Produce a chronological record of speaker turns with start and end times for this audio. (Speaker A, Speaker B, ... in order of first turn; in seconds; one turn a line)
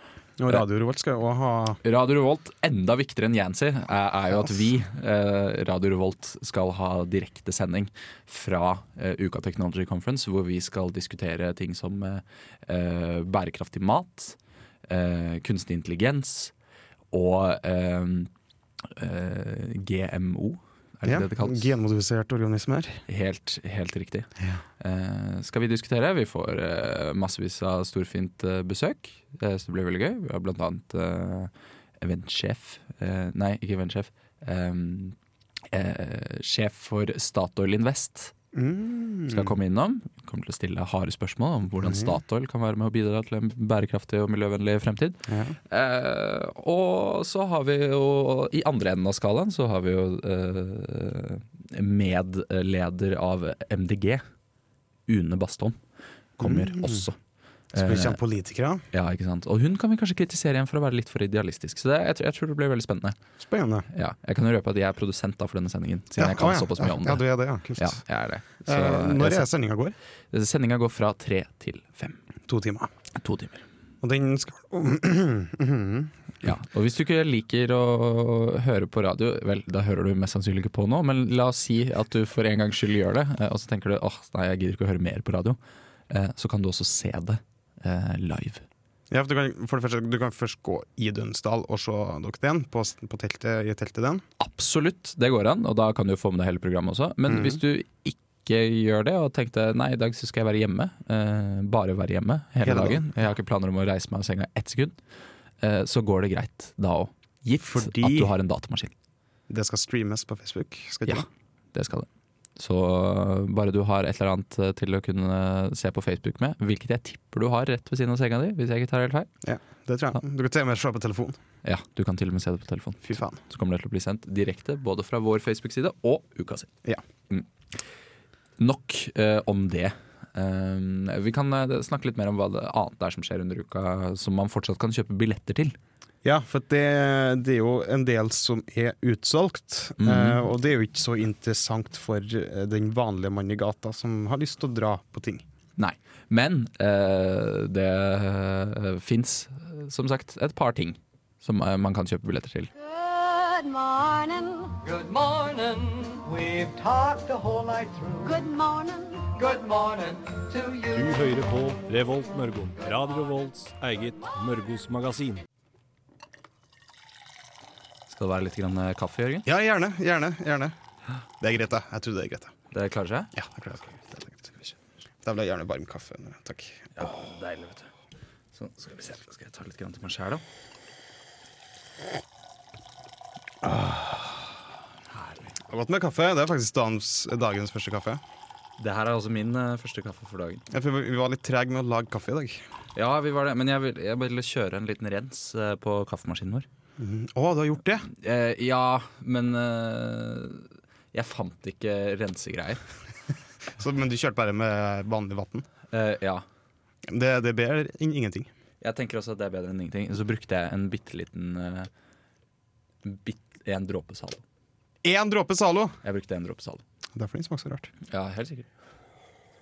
Speaker A: 0.4-1.8
Speaker B: 1.8-16.5
Speaker B: 17.1-18.3
Speaker B: 18.9-21.7
Speaker A: 21.0-23.0
Speaker B: 23.1-35.1
Speaker B: 35.7-38.3
Speaker A: 38.5-39.5
Speaker B: 39.3-54.2
Speaker A: 41.8-42.1
Speaker A: 45.3-45.6
Speaker B: 55.1-55.8
Speaker B: 56.4-57.2
Speaker A: 56.4-57.0
Speaker A: 57.7-58.9
Speaker B: 57.7-58.2
Speaker B: 58.9-63.2
Speaker A: 63.4-63.9
Speaker B: 63.9-69.5
Speaker A: 66.2-68.0
Speaker A: 68.7-70.0
Speaker B: 70.3-72.2
Speaker A: 72.5-72.9
Speaker B: 73.2-73.6
Speaker A: 74.0-76.1
Speaker B: 76.4-85.6
Speaker B: 86.1-88.6
Speaker A: 89.1-94.2
Speaker B: 94.4-105.0
Speaker A: 97.3-97.6
Speaker A: 102.6-103.1
Speaker B: 105.6-108.9
Speaker A: 107.6-108.3
Speaker A: 109.5-111.3
Speaker B: 111.1-119.3
Speaker A: 119.4-121.4
Speaker B: 121.6-126.7
Speaker A: 123.0-123.4
Speaker B: 128.6-135.8
Speaker A: 136.2-145.4
Speaker B: 140.0-140.4
Speaker B: 145.8-152.7
Speaker C: 152.8-154.8
Speaker D: 154.8-158.4
Speaker C: 158.2-159.3
Speaker D: 159.4-161.2
Speaker E: 160.9-165.4
Speaker B: 168.1-169.5
Speaker A: 169.5-170.8
Speaker A: 171.4-172.5
Speaker B: 172.7-173.3
Speaker A: 173.3-177.1
Speaker B: 177.0-177.9
Speaker B: 178.5-180.4
Speaker A: 183.6-184.4
Speaker B: 185.1-185.5
Speaker A: 185.7-188.2
Speaker B: 188.8-190.7
Speaker A: 190.7-192.6
Speaker B: 193.0-196.7
Speaker A: 197.0-198.1
Speaker B: 198.1-202.8
Speaker A: 203.8-205.7
Speaker B: 205.9-206.4
Speaker A: 207.1-208.5
Speaker B: 208.8-211.9
Speaker B: 213.0-214.4
Speaker A: 215.0-216.0
Speaker B: 216.0-216.8
Speaker A: 217.2-217.9
Speaker B: 218.1-218.7